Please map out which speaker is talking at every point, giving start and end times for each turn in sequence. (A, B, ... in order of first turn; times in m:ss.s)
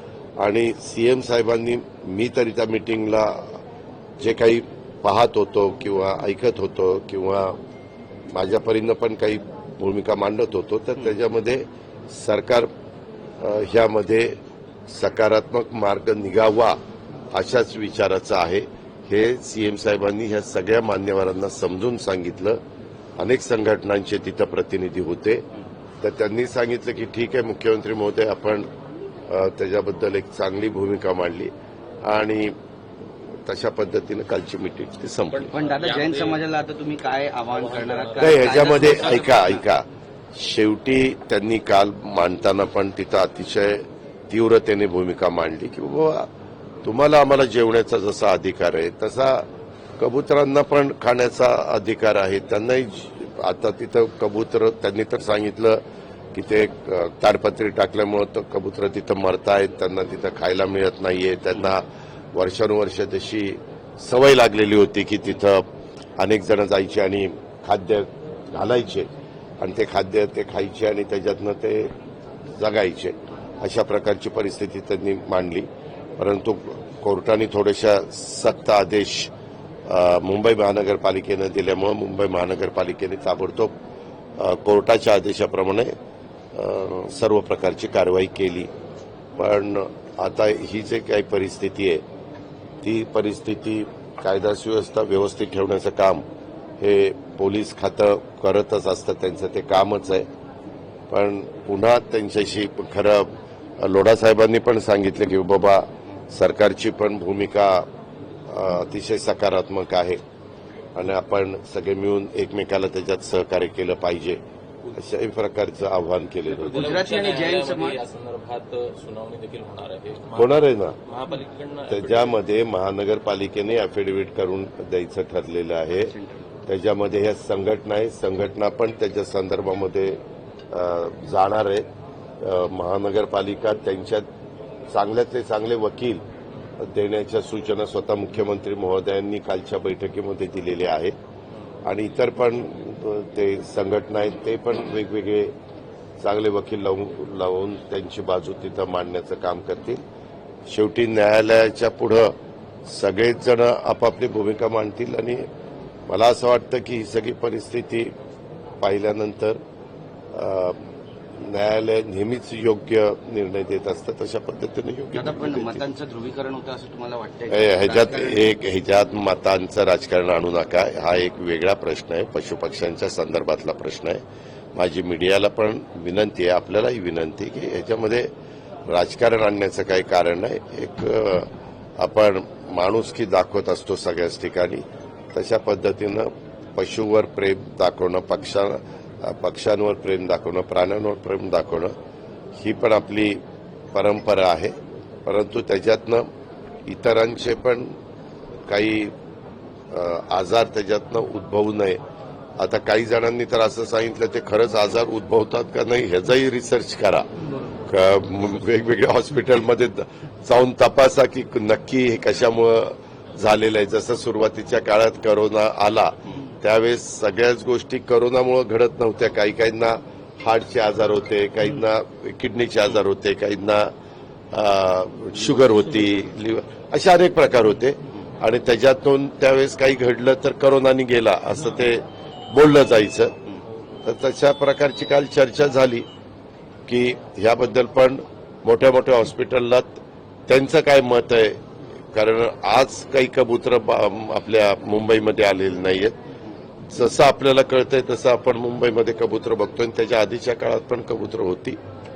0:00.4-0:03.6 A
0:04.2-0:07.6 A
0:08.3-0:12.7 A
0:13.4-0:16.8 A
0:17.3-0:22.6 A
0:23.2-0:25.4 A
0:26.0-0:28.7 A
0:29.3-0:31.5 A
0:32.0-0:32.6 A
0:33.4-0:35.5 A
0:35.3-0:36.4 B
0:35.5-0:39.6 C
0:37.5-0:39.4 B
0:38.2-0:46.3 A
0:46.8-0:49.5 A
0:50.0-0:55.8 A
0:56.3-1:05.7 A
1:06.2-1:09.1 A
1:09.6-1:12.0 A
1:12.6-1:19.3 A
1:19.9-1:23.8 A
1:24.4-1:26.0 A
1:26.5-1:28.7 A
1:29.4-1:32.0 A
1:32.8-1:36.2 A
1:36.8-1:40.3 A
1:41.1-1:47.9 A
1:48.5-1:50.2 A
1:51.0-1:54.4 A
1:54.9-1:57.0 A
1:56.5-1:58.0 C
1:56.7-2:02.4 B
2:00.4-2:01.0 A
2:01.9-2:06.1 A
2:06.1-2:06.4 C
2:06.7-2:10.2 A
2:10.7-2:11.9 A
2:12.4-2:14.3 A
2:14.9-2:16.2 A
2:16.8-2:21.2 A
2:21.8-2:25.5 A
2:26.2-2:30.0 A
2:30.7-2:35.5 A
2:36.1-2:38.2 A
2:38.8-2:39.6 A
2:40.3-2:45.8 A
2:45.1-2:48.6 C
2:47.5-2:54.2 A
2:54.8-2:58.3 A
2:58.9-3:12.0 A
3:12.6-3:13.4 A
3:13.9-3:16.3 A
3:16.9-3:18.0 A
3:18.6-3:19.1 A
3:19.9-3:22.0 A
3:22.6-3:43.9 A
3:44.5-3:53.4 A
3:54.0-3:56.1 A
3:56.9-4:06.2 A
4:06.8-4:11.8 A